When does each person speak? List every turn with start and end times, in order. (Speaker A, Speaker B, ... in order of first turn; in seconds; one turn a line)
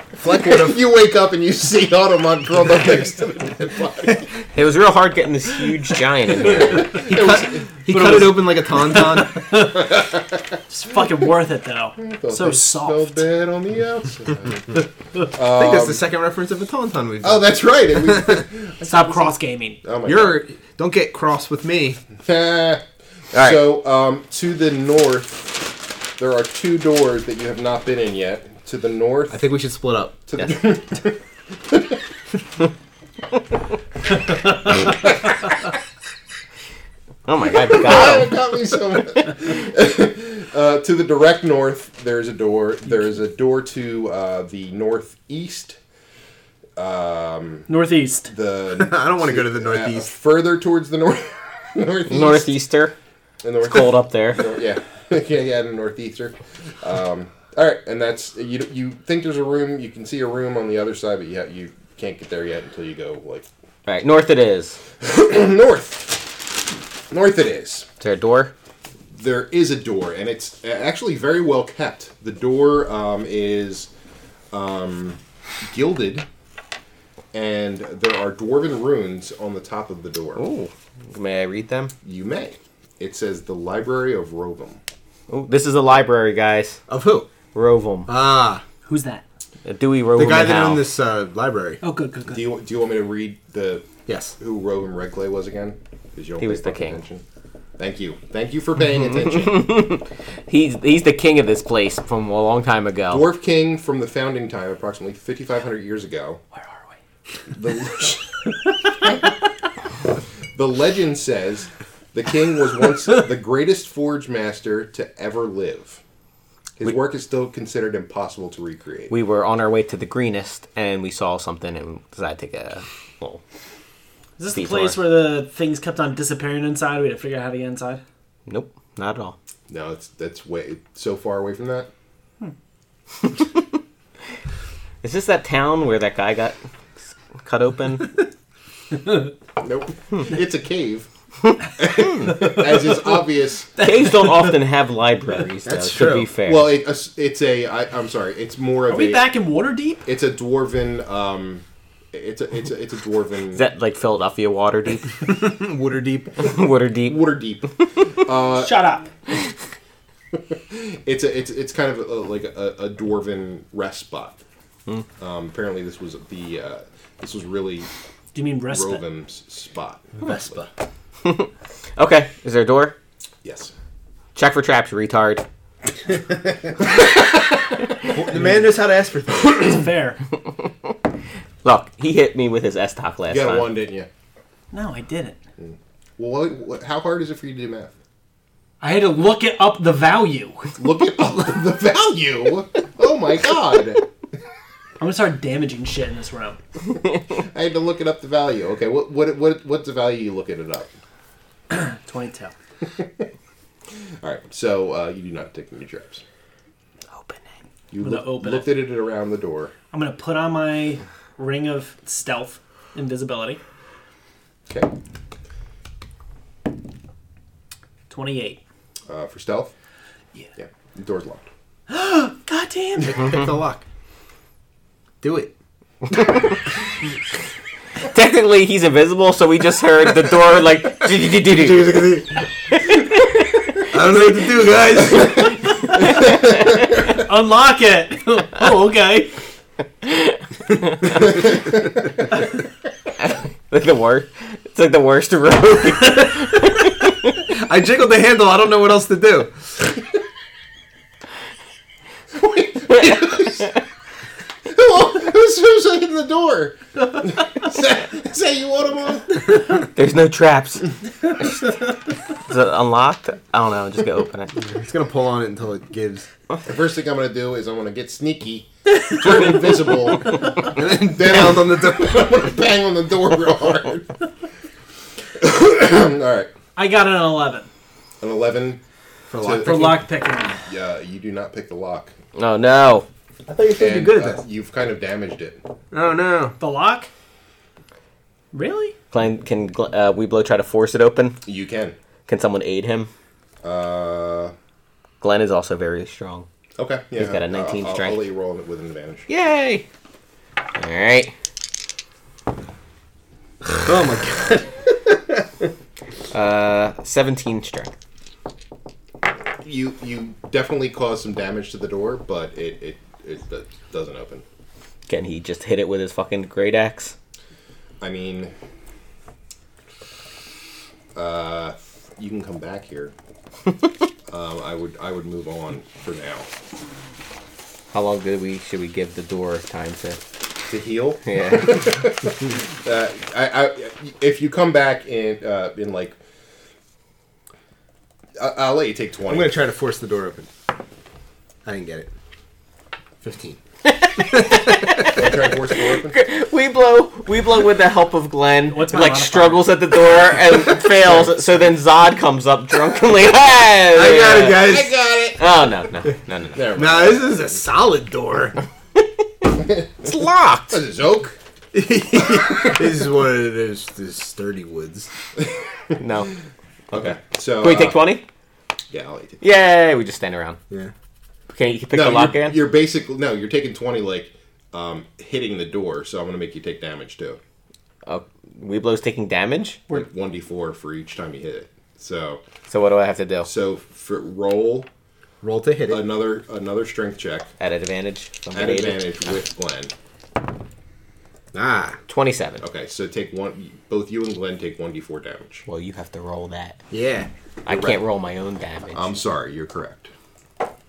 Speaker A: 0.2-0.8
Speaker B: 0.2-4.3
Speaker C: 4.5-7.0
Speaker B: 6.4-7.7
Speaker A: 7.0-9.5
Speaker D: 7.1-10.1
Speaker B: 9.7-10.6
Speaker D: 10.7-13.2
Speaker B: 12.0-16.0
Speaker A: 15.4-18.5
Speaker B: 17.2-20.4
Speaker D: 18.8-19.8
Speaker A: 20.0-22.0
Speaker B: 22.2-29.4
Speaker C: 23.3-23.6
Speaker A: 29.3-30.2
Speaker B: 30.3-32.0
Speaker C: 37.3-38.4
Speaker B: 37.6-45.8
Speaker B: 46.8-47.7
Speaker D: 47.7-48.3
Speaker B: 48.2-52.5
Speaker A: 48.7-50.1
Speaker C: 52.1-53.0
Speaker B: 53.4-63.5
Speaker C: 53.6-54.5
Speaker C: 63.9-64.8
Speaker B: 65.0-66.6
Speaker B: 67.1-67.9
Speaker C: 68.0-68.5
Speaker B: 69.1-73.9
Speaker B: 74.5-76.3
Speaker B: 77.3-80.4
Speaker C: 80.4-81.9
Speaker B: 82.0-84.8
Speaker C: 85.3-86.8
Speaker A: 86.9-87.3
Speaker C: 87.5-88.1
Speaker A: 88.1-88.6
Speaker D: 88.8-89.2
Speaker C: 89.6-90.9
Speaker A: 90.1-91.8
Speaker D: 91.8-92.5
Speaker B: 92.3-97.2
Speaker A: 94.1-94.4
Speaker C: 96.4-97.0
Speaker B: 97.8-99.7
Speaker C: 99.2-103.3
Speaker B: 103.1-106.4
Speaker B: 107.5-108.4
Speaker B: 110.5-116.0
Speaker B: 116.8-119.1
Speaker C: 119.1-123.4
Speaker D: 124.4-128.0
Speaker C: 124.5-125.1
Speaker C: 128.5-129.4
Speaker B: 129.7-131.9
Speaker C: 135.0-136.6
Speaker C: 137.4-138.2
Speaker B: 139.6-141.1
Speaker B: 141.8-143.7
Speaker D: 143.8-144.5
Speaker C: 143.8-146.8
Speaker A: 145.6-146.3
Speaker B: 146.4-149.3
Speaker D: 148.9-150.1
Speaker B: 150.1-153.6
Speaker C: 153.5-155.2
Speaker A: 155.2-156.4
Speaker C: 156.4-157.3
Speaker B: 157.0-158.8
Speaker D: 158.5-159.1
Speaker B: 160.3-164.4
Speaker B: 165.2-167.9
Speaker D: 168.3-169.0
Speaker B: 168.7-170.6
Speaker A: 170.2-170.7
Speaker C: 171.2-173.0
Speaker B: 173.4-173.7
Speaker C: 174.3-175.4
Speaker B: 176.9-177.4
Speaker A: 178.1-179.7
Speaker D: 179.5-180.2
Speaker C: 181.6-183.7
Speaker B: 183.3-184.1
Speaker D: 184.7-185.4
Speaker B: 185.6-187.9
Speaker D: 188.8-190.8
Speaker B: 190.8-194.1
Speaker D: 195.0-196.6
Speaker B: 197.3-200.9
Speaker D: 201.7-202.5
Speaker B: 202.9-203.3
Speaker B: 204.2-206.2
Speaker B: 207.9-209.7
Speaker D: 208.0-208.8
Speaker D: 209.9-213.6
Speaker D: 218.1-218.6
Speaker B: 219.1-219.7
Speaker B: 220.6-221.5
Speaker D: 221.9-223.3
Speaker A: 223.0-223.8
Speaker A: 225.2-225.5
Speaker C: 228.1-232.1
Speaker A: 231.3-232.4
Speaker C: 232.7-233.4
Speaker A: 233.9-235.6
Speaker D: 235.9-239.4
Speaker C: 236.0-237.0
Speaker C: 240.0-241.3
Speaker C: 243.2-247.3
Speaker A: 247.4-249.8
Speaker B: 252.3-253.8
Speaker C: 252.9-253.3
Speaker B: 254.7-259.5
Speaker C: 259.8-264.5
Speaker A: 264.6-266.3
Speaker B: 266.6-274.2
Speaker A: 270.6-272.3
Speaker B: 275.4-276.5
Speaker D: 276.8-277.7
Speaker B: 278.2-278.8
Speaker A: 279.3-280.0
Speaker B: 279.4-280.0
Speaker D: 279.6-280.6
Speaker B: 280.6-282.1
Speaker C: 282.4-283.1
Speaker A: 283.5-284.4
Speaker B: 283.8-285.6
Speaker A: 285.9-286.6
Speaker D: 286.6-287.1
Speaker D: 288.5-289.0
Speaker C: 289.1-291.4
Speaker B: 291.4-292.0
Speaker C: 292.3-293.1
Speaker B: 293.6-294.5
Speaker C: 295.2-296.5
Speaker B: 296.8-299.3
Speaker C: 297.1-298.2
Speaker C: 299.3-299.9
Speaker C: 300.8-301.4
Speaker A: 303.7-305.7
Speaker C: 306.3-307.9
Speaker B: 309.6-314.4
Speaker C: 315.1-317.1
Speaker B: 318.0-318.5
Speaker B: 321.1-323.1
Speaker B: 324.3-326.5
Speaker C: 327.9-330.2
Speaker B: 330.7-336.2
Speaker C: 331.2-331.9
Speaker B: 338.4-339.6
Speaker A: 339.3-340.5
Speaker A: 341.6-342.1
Speaker A: 343.2-343.6
Speaker C: 343.9-354.8
Speaker A: 344.2-345.1
Speaker B: 345.0-346.2
Speaker D: 348.7-349.7
Speaker B: 351.0-351.4
Speaker A: 353.9-354.9
Speaker B: 354.5-355.6
Speaker C: 355.4-356.7
Speaker B: 356.6-357.6
Speaker A: 356.8-358.6
Speaker B: 359.6-360.1
Speaker C: 360.0-360.8
Speaker B: 360.7-361.4
Speaker A: 361.7-365.1
Speaker B: 365.4-366.0
Speaker C: 366.0-366.3
Speaker C: 366.9-368.2
Speaker B: 366.9-368.0
Speaker B: 368.9-369.4
Speaker C: 369.4-370.6
Speaker C: 371.5-372.7
Speaker B: 371.9-377.4
Speaker C: 378.1-379.8
Speaker B: 379.9-382.4
Speaker C: 382.7-383.5
Speaker B: 383.4-384.9
Speaker A: 385.4-386.1
Speaker B: 385.9-387.5
Speaker C: 387.6-389.1
Speaker B: 388.5-389.9
Speaker A: 391.5-392.0
Speaker C: 392.1-392.6
Speaker B: 392.6-395.6
Speaker C: 395.7-396.8
Speaker A: 396.9-397.3
Speaker C: 397.7-399.2
Speaker B: 397.7-398.0
Speaker B: 398.9-400.1